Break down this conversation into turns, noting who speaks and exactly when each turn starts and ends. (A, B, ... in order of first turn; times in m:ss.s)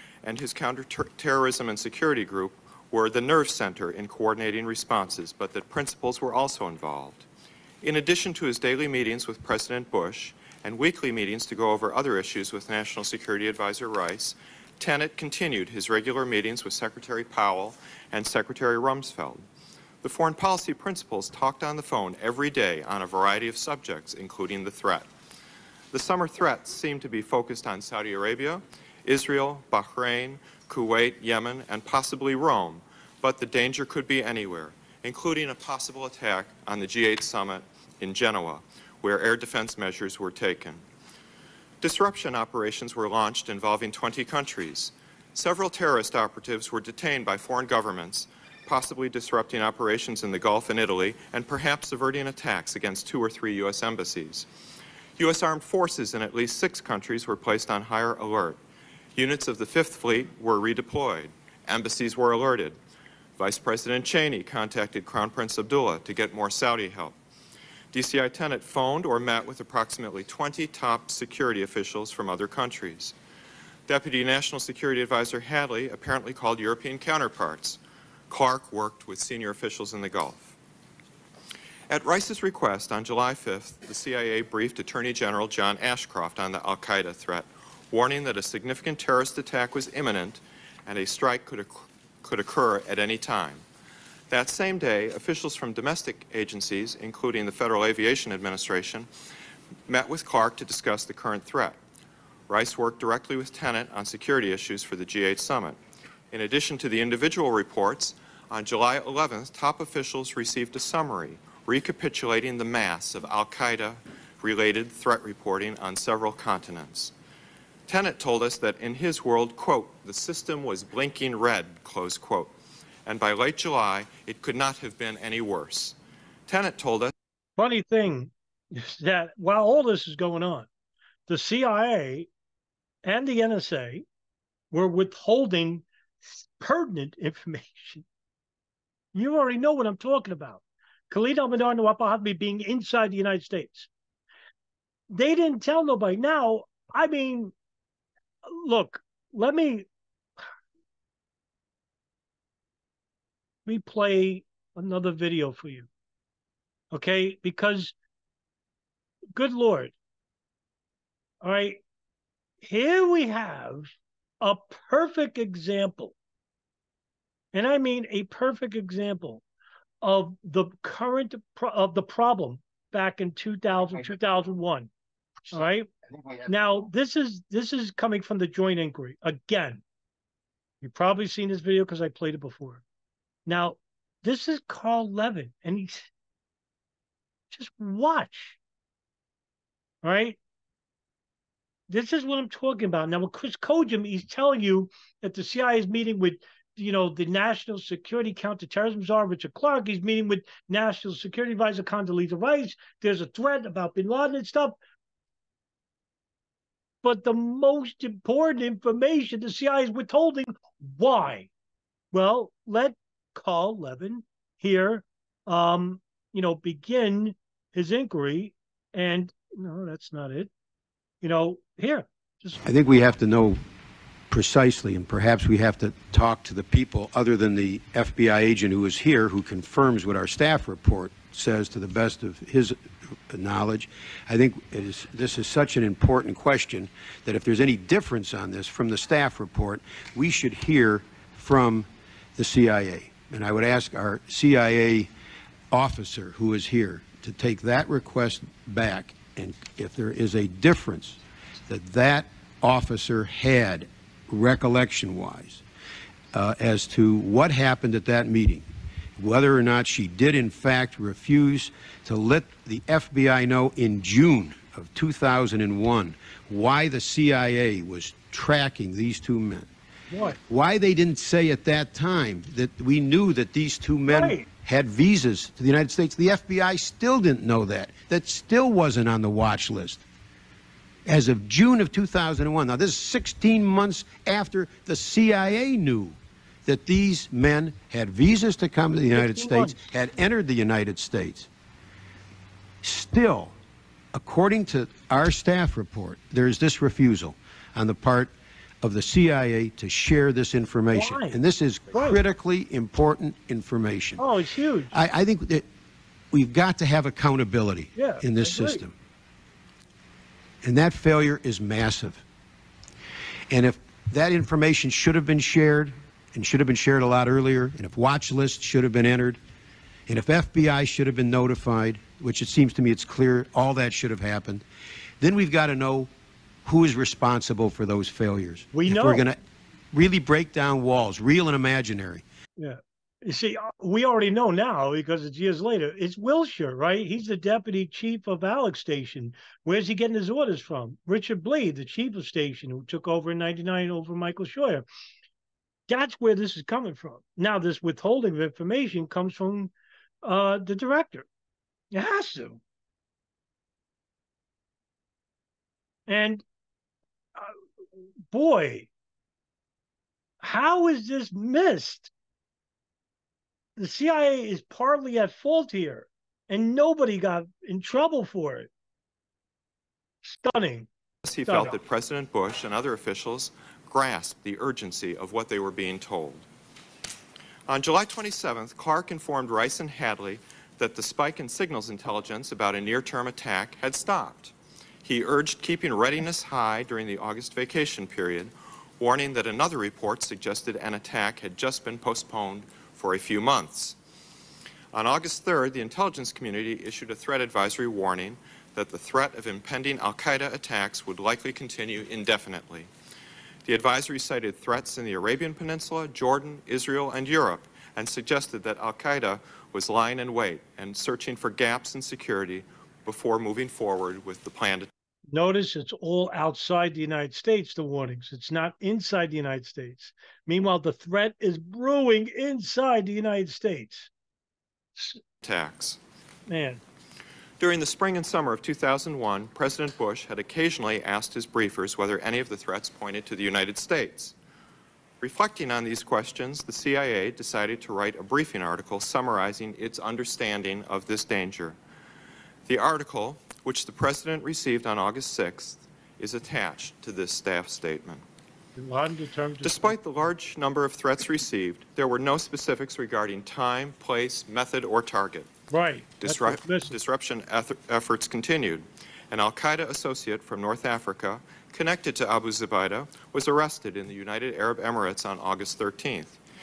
0:00.2-0:07.3 A
0:07.8-0:19.4 A
0:20.0-0:25.1 A
0:25.9-0:40.8 A
0:41.8-0:54.5 A
0:55.2-0:58.6 A
0:59.2-1:02.8 A
1:03.4-1:07.2 A
1:07.9-1:13.2 A
1:13.9-1:17.8 A
1:18.3-1:20.6 A
1:21.9-1:33.6 A
1:34.3-1:39.1 A
1:39.9-1:41.8 A
1:42.5-1:45.8 A
1:46.3-1:57.1 A
1:57.9-2:02.5 A
2:03.1-2:06.0 A
2:06.5-2:07.1 A
2:07.6-2:10.7 B
2:11.3-2:12.3 B
2:13.0-2:14.0 B
2:14.7-2:18.0 B
2:19.1-2:23.9 B
2:25.1-2:27.5 B
2:28.4-2:29.9 B
2:33.7-2:35.9 B
2:36.9-2:37.9 B
2:39.4-2:39.9 B
2:41.4-2:41.8 B
2:42.6-2:46.1 B
2:47.5-2:49.4 B
2:50.0-2:54.9 B
2:55.5-2:59.8 B
3:00.8-3:02.8 B
3:03.5-3:06.1 B
3:07.5-3:08.6 B
3:10.0-3:10.4 B
3:11.9-3:24.8 B
3:27.0-3:31.5 B
3:32.1-3:40.5 B
3:41.2-3:42.6 B
3:42.6-3:43.6 C
3:44.3-4:05.1 C
4:05.7-4:15.6 C
4:16.3-4:29.7 C
4:30.1-4:30.4 B
4:30.4-4:40.0 C
4:34.1-4:34.5 B
4:41.1-4:51.5 C
4:49.1-4:49.8 B
4:52.8-4:53.6 C
4:54.1-5:04.2 C
5:00.9-5:01.4 B
5:01.9-5:02.2 B
5:04.2-5:04.9 B
5:04.9-5:05.6 C
5:06.3-5:08.9 C
5:08.0-5:08.8 B
5:10.6-5:12.2 C
5:13.5-5:19.4 C
5:20.1-5:24.6 C
5:25.2-5:26.1 C
5:26.6-5:29.4 C
5:28.7-5:29.2 B
5:29.9-5:32.2 C
5:32.6-5:44.8 B
5:45.9-5:49.7 B
5:50.2-5:51.3 B
5:51.9-5:52.6 B
5:56.1-5:56.4 B
5:58.3-5:58.9 B
6:00.4-6:02.1 B
6:03.8-6:08.7 B
6:10.2-6:10.9 B
6:11.2-6:16.5 A
6:11.5-6:11.8 B
6:17.7-6:34.0 A
6:34.9-6:42.9 A
6:43.6-6:54.9 A
6:55.3-7:04.1 B
7:05.4-7:06.0 A
7:06.5-7:06.8 B
7:07.6-7:14.4 A
7:15.2-7:21.8 A
7:22.7-7:28.2 A
7:28.8-7:30.0 B
7:29.6-7:35.5 A
7:35.7-7:36.9 B
7:36.2-7:46.4 A